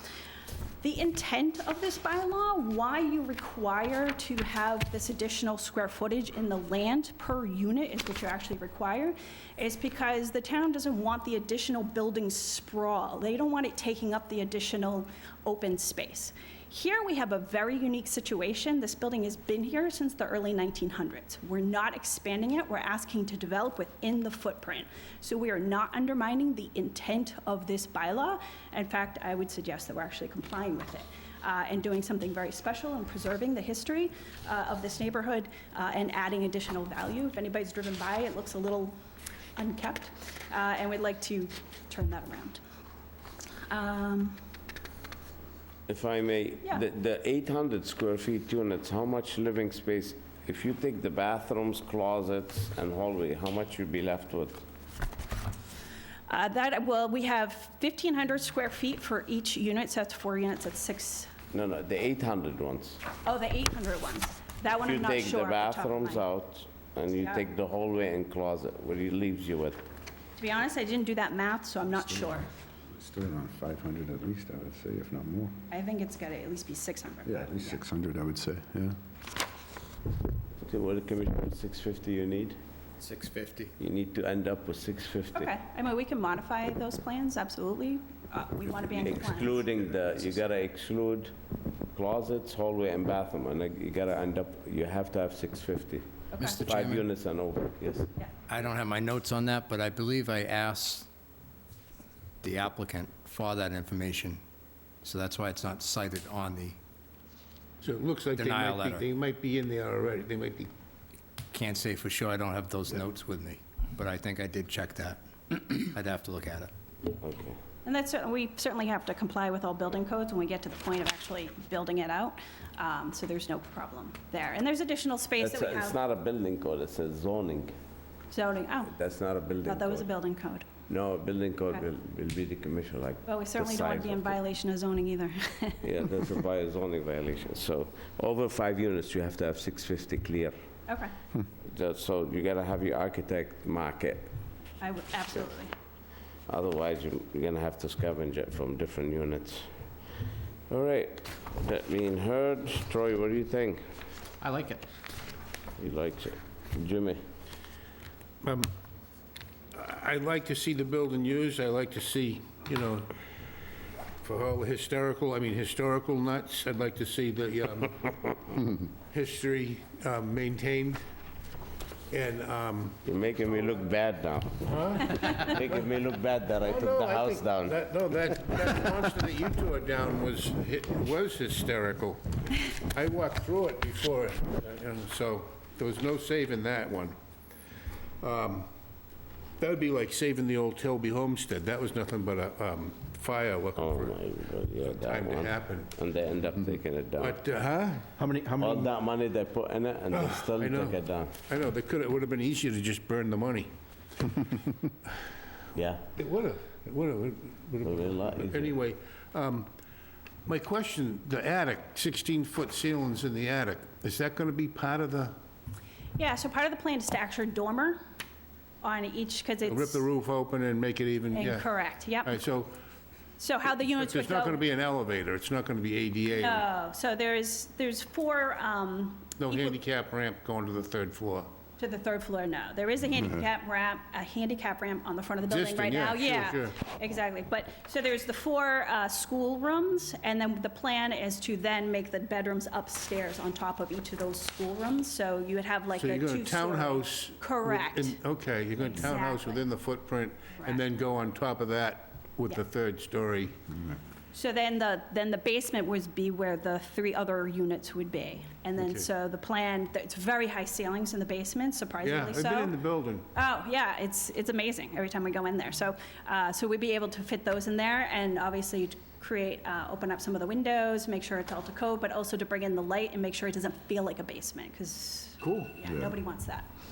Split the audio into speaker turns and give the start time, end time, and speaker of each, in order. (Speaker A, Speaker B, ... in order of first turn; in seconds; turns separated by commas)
Speaker A: 0.8-39.0, Speaker A: 39.6-42.6, Speaker A: 43.7-44.4, Speaker B: 45.9-54.6, Speaker A: 56.3-61.3, Speaker B: 61.5-63.0, Speaker A: 63.2-66.3, Speaker B: 64.8-69.8, Speaker A: 67.2-67.4, Speaker A: 70.4-72.5, Speaker C: 72.9-75.5, Speaker A: 75.7-77.8, Speaker C: 77.2-79.0, Speaker B: 80.7-82.6, Speaker D: 83.0-83.7, Speaker B: 83.8-85.5, Speaker A: 85.3-89.7, Speaker B: 88.9-91.3, Speaker B: 92.0-98.1, Speaker A: 96.3-96.6, Speaker D: 96.4-97.0, Speaker D: 98.5-101.1, Speaker D: 102.4-104.4, Speaker D: 105.0-106.8, Speaker E: 107.8-110.7, Speaker D: 108.3-109.1, Speaker D: 111.5-116.7, Speaker B: 117.1-117.6, Speaker A: 117.8-126.0, Speaker B: 125.4-127.7, Speaker A: 128.3-128.9, Speaker B: 128.9-130.1, Speaker A: 129.6-130.7, Speaker B: 130.9-134.4, Speaker A: 133.3-136.1, Speaker B: 135.8-140.5, Speaker A: 140.9-141.1, Speaker B: 141.7-144.3, Speaker A: 144.8-145.7, Speaker B: 146.5-149.7, Speaker B: 150.7-153.8, Speaker D: 154.4-154.8, Speaker B: 155.8-157.2, Speaker E: 158.4-158.7, Speaker E: 159.7-163.1, Speaker E: 164.2-168.4, Speaker E: 169.1-171.0, Speaker E: 172.1-173.8, Speaker B: 173.1-177.8, Speaker E: 174.7-175.9, Speaker E: 176.6-187.2, Speaker E: 188.2-188.7, Speaker E: 189.6-194.2, Speaker B: 193.8-197.4, Speaker E: 194.8-195.9, Speaker E: 197.2-198.9, Speaker B: 198.6-201.3, Speaker E: 200.1-203.7, Speaker B: 205.8-206.0, Speaker E: 206.2-209.7, Speaker B: 207.8-208.7, Speaker E: 210.5-215.4, Speaker A: 216.2-218.0, Speaker A: 218.8-220.0, Speaker E: 219.7-221.7, Speaker A: 221.3-222.4, Speaker E: 222.2-222.8, Speaker A: 223.4-224.6, Speaker E: 223.9-226.7, Speaker A: 226.3-229.8, Speaker E: 229.4-231.5, Speaker A: 231.8-248.2, Speaker E: 235.5-236.8, Speaker E: 246.0-253.7, Speaker A: 248.9-249.6, Speaker A: 250.6-250.8, Speaker A: 254.3-262.8, Speaker E: 258.8-259.1, Speaker E: 262.0-263.3, Speaker A: 263.3-276.7, Speaker E: 275.4-275.8, Speaker C: 275.9-276.2